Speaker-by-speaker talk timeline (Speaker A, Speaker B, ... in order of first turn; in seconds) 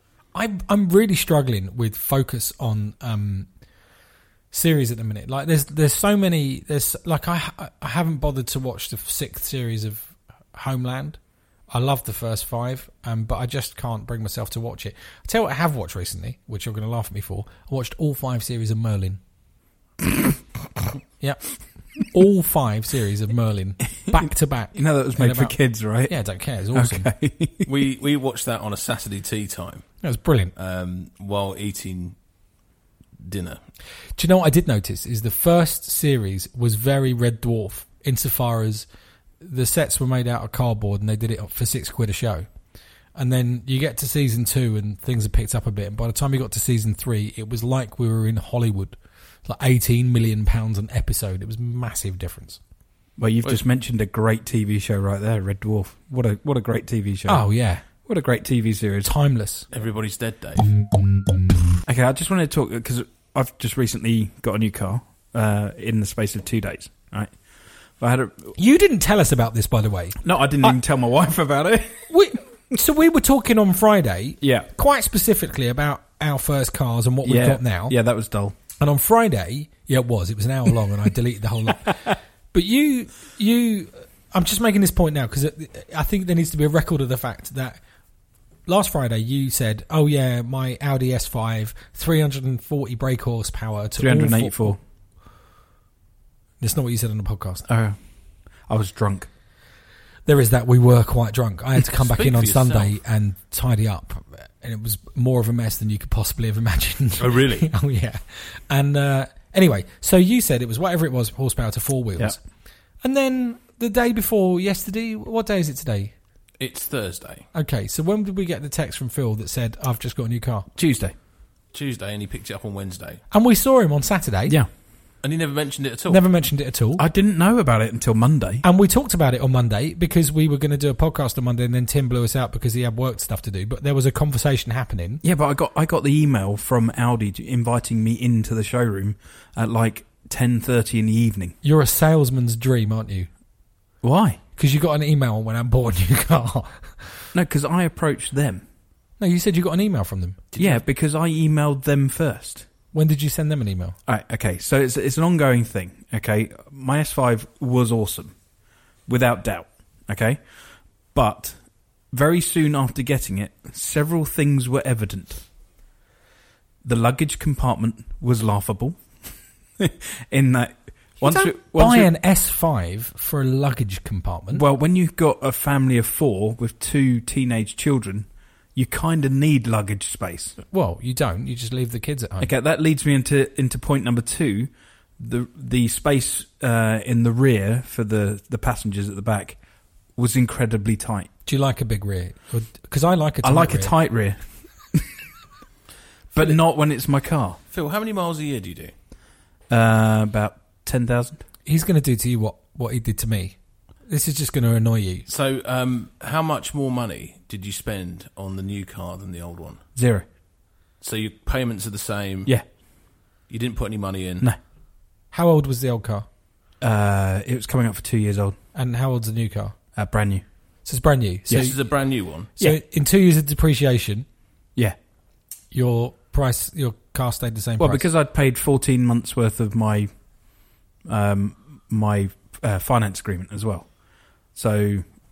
Speaker A: 0.3-3.5, 4.5-19.2, 21.2-27.1, 30.0-30.5, 34.2-38.9, 39.4-42.5, 43.1-52.6, 57.3-57.9, 59.0-59.7, 68.6-70.8, 72.1-78.0, 78.8-87.8, 88.7-94.8, 96.6-97.7, 100.3-112.4, 113.0-116.1, 117.5-120.7, 123.3-124.6, 126.1-127.0, 128.6-135.2, 141.6-143.3, 144.6-147.2, 149.2-150.4, 152.9-154.0, 171.2-174.7, 180.6-182.5, 191.5-193.9, 201.7-203.6, 204.1-205.3, 215.3-216.2, 218.8-219.8, 220.9-221.8, 222.6-224.2, 225.7-228.1
Speaker B: 24.1-26.2, 26.7-27.7, 53.2-59.1, 61.9-67.4, 68.0-68.6, 70.2-72.1, 74.4-74.7, 77.2-78.5, 94.0-94.8, 97.7-98.0, 98.7-99.3, 120.8-121.2, 127.0-128.6, 135.2-141.6, 144.0-144.4, 147.3-148.6, 150.6-152.7, 154.1-158.4, 159.1-160.4, 161.1-165.4, 166.8-169.0, 169.8-172.1, 174.5-180.6, 182.4-189.6, 190.2-191.3, 193.4-195.1, 196.3-197.6, 199.7-201.4, 210.0-210.3, 216.8-218.6, 220.0-220.4, 221.5-221.7, 227.8-230.1, 231.1-233.9, 234.5-235.1
Speaker C: 27.6-29.9, 30.6-32.2, 33.2-33.6, 59.7-60.7, 102.0-102.9, 107.2-107.7, 116.6-117.5, 121.7-123.2, 125.2-126.2, 150.5-150.8, 197.7-198.9, 205.3-209.8, 211.0-212.5, 213.5-214.5, 221.5-222.5